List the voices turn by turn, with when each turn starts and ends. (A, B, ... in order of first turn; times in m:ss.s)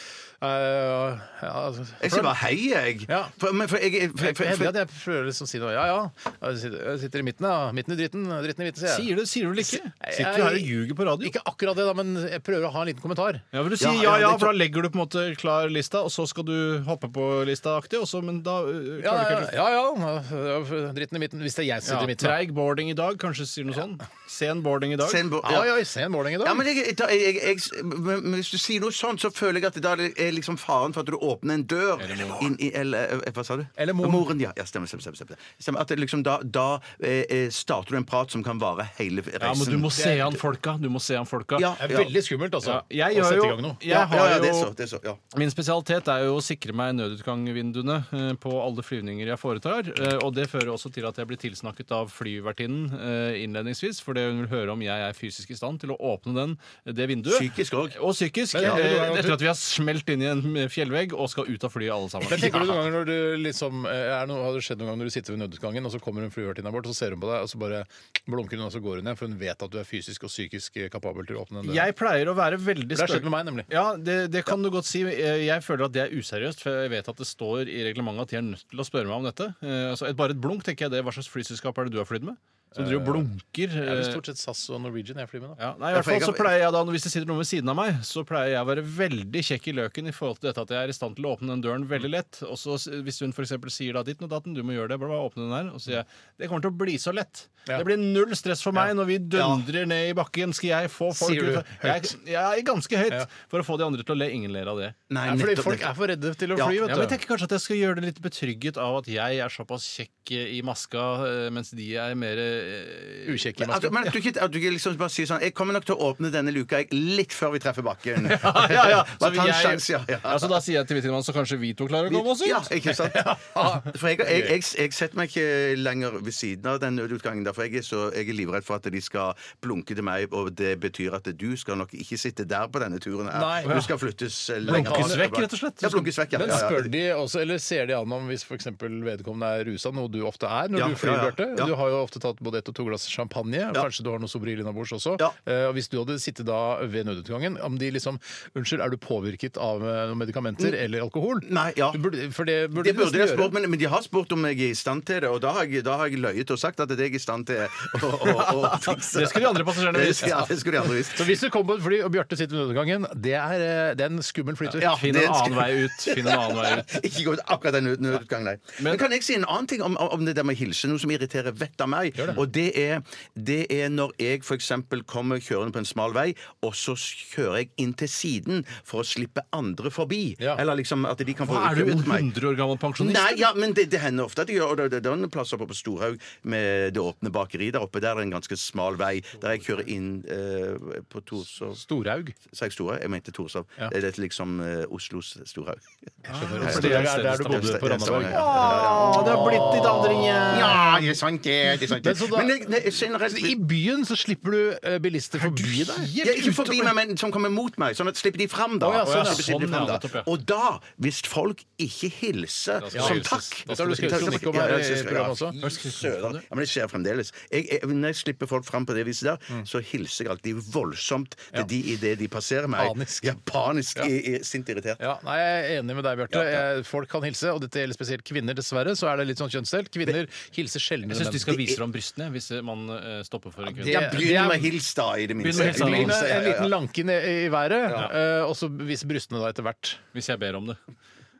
0:00.4-0:02.3 A
0:02.0-0:04.7 B
0:03.1-0:03.3 A
0:04.2-0:09.1 A
0:08.8-0:11.3 C
0:10.0-0:13.4 A
0:13.5-0:19.5 C
0:13.8-0:14.5 B
0:19.0-0:22.4 A
0:21.8-0:25.2 C
0:25.0-0:25.7 B
0:25.4-0:26.6 A
0:26.4-0:39.9 B
0:32.0-0:32.5 C
0:33.8-0:34.2 A
0:39.4-0:41.8 C
0:40.0-0:40.3 A
0:41.6-0:42.1 B
0:41.8-0:43.8 A
0:42.6-0:44.7 C
0:43.9-0:45.2 B
0:45.3-1:02.8 C
0:57.3-0:58.0 B
0:58.5-0:59.4 A
0:58.5-0:58.8 B
1:02.3-1:11.9 A
1:11.6-1:24.2 C
1:12.9-1:13.7 A
1:22.7-1:23.3 A
1:23.8-1:25.6 A
1:25.6-1:45.0 C
1:25.9-1:26.6 B
1:39.3-1:39.6 B
1:41.1-1:42.1 A
1:45.1-1:45.9 B
1:45.2-1:47.1 A
1:46.5-1:46.9 B
1:46.9-1:53.5 C
1:53.2-1:54.0 A
1:53.6-2:00.6 B
1:58.2-2:02.7 C
2:02.1-2:16.9 B
2:03.0-2:03.9 A
2:13.3-2:13.8 A
2:13.6-2:13.9 C
2:14.6-2:15.2 A
2:14.6-2:16.7 C
2:16.3-2:33.5 A
2:20.7-2:21.7 B
2:31.4-2:32.0 B
2:32.8-2:41.3 B
2:38.2-2:40.6 C
2:41.1-2:45.0 A
2:44.7-2:47.0 C
2:44.8-3:02.3 B
2:48.8-2:49.0 C
3:01.4-3:03.5 C
3:03.0-3:11.8 B
3:11.8-3:12.4 A
3:12.5-3:15.8 B
3:16.3-3:21.0 C
3:16.3-3:21.0 A
3:16.6-3:23.6 B
3:21.9-3:22.5 A
3:23.3-3:26.1 A
3:25.3-3:26.9 C
3:26.2-3:45.0 B
3:28.8-3:29.6 A
3:29.0-3:30.3 C
3:32.8-3:34.4 C
3:32.9-3:35.5 A
3:35.6-3:36.4 C
3:42.8-3:43.2 A
3:45.0-3:51.7 A
3:46.3-3:46.6 B
3:51.1-3:54.3 C
3:53.7-3:56.7 B
3:53.8-3:54.7 A
3:55.4-3:56.2 C
3:55.5-4:00.0 A
4:00.1-4:00.8 C